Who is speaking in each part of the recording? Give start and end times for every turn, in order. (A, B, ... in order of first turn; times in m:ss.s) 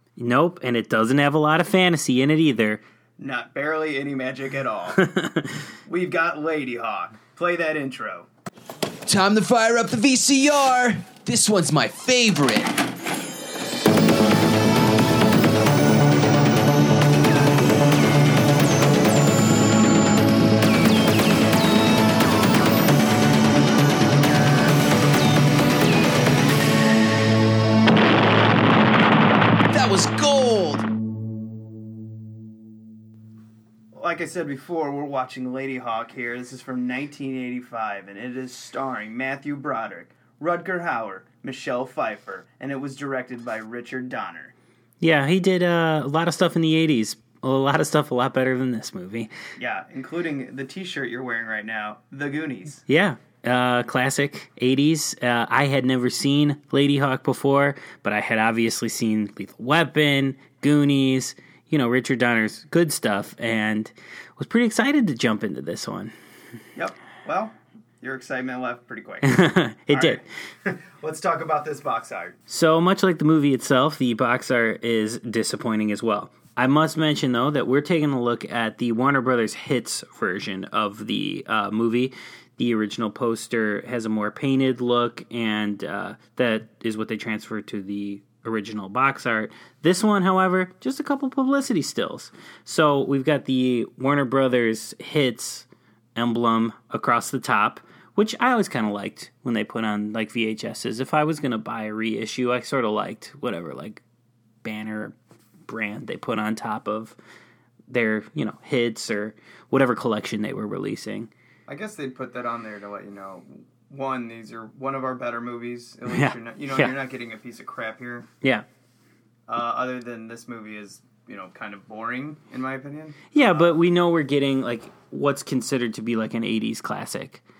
0:00.2-0:02.8 A
0:03.2-0:05.0 B
0:05.0-0:05.5 A
0:05.9-0:08.3 B
0:09.0-0:12.8 C
0:29.7-0:30.8 C
0:33.9-0:44.5 B
0:45.0-0:49.3 A
0:49.6-0:52.8 B
0:52.9-1:06.1 A
1:06.8-1:12.4 B
1:09.2-1:10.2 A
1:12.5-1:44.0 A
1:44.6-1:45.1 A
1:45.6-1:47.2 A
1:47.9-1:51.3 A
1:51.7-1:58.3 B
1:56.1-1:56.9 A
1:59.5-2:03.7 B
2:03.3-2:07.4 A